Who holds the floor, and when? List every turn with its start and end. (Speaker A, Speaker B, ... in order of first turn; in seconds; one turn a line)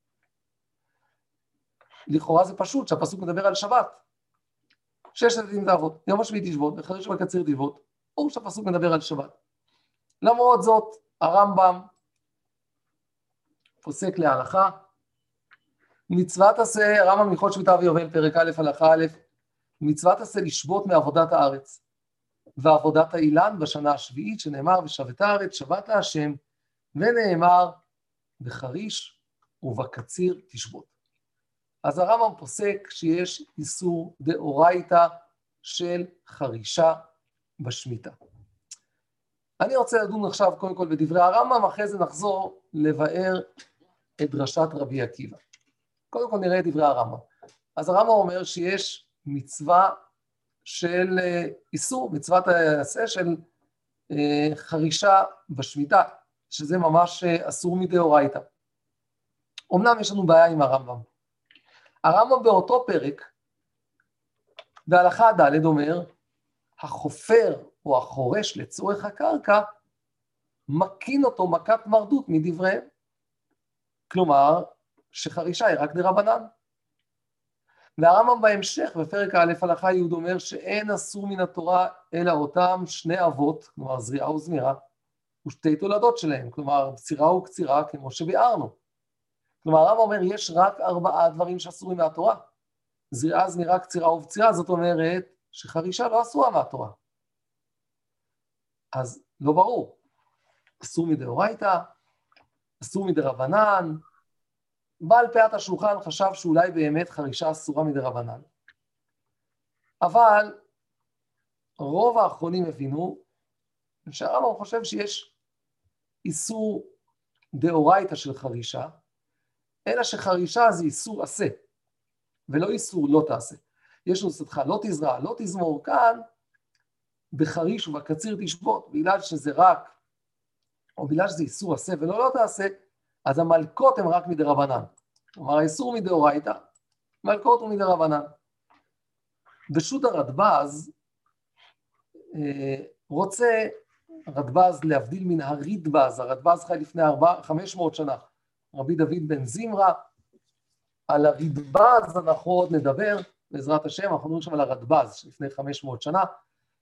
Speaker A: 2.1-4.0
Speaker A: 5.1-9.3
Speaker A: 10.2-11.9
Speaker A: 13.8-14.8
Speaker A: 16.1-19.2
Speaker A: 19.8-21.8
Speaker A: 22.6-26.4
Speaker A: 26.9-27.8
Speaker A: 28.4-30.9
Speaker A: 31.8-37.0
Speaker A: 37.6-38.1
Speaker A: 39.6-43.5
Speaker A: 44.2-45.4
Speaker A: 46.1-47.2
Speaker A: 47.8-49.9
Speaker A: 50.6-53.4
Speaker A: 54.1-58.4
Speaker A: 59.7-61.0
Speaker A: 62.0-63.3
Speaker A: 64.9-66.1
Speaker A: 66.8-69.7
Speaker A: 70.7-72.8
Speaker A: 74.1-76.5
Speaker A: 78.0-84.8
Speaker A: 85.4-88.7
Speaker A: 89.6-92.4
Speaker A: 93.1-96.9
Speaker A: 98.9-100.0
Speaker A: 100.8-101.9
Speaker A: 102.8-104.0
Speaker A: 105.0-108.5
Speaker A: 110.0-110.5
Speaker A: 111.8-113.2
Speaker A: 114.1-115.3
Speaker A: 116.2-116.9
Speaker A: 117.5-118.9
Speaker A: 119.8-121.6
Speaker A: 122.5-126.2
Speaker A: 127.3-129.9
Speaker A: 131.0-132.7
Speaker A: 133.2-136.6
Speaker A: 137.2-138.3
Speaker A: 139.7-140.9
Speaker A: 142.3-143.8
Speaker A: 144.3-148.2
Speaker A: 148.7-150.0
Speaker A: 151.1-156.3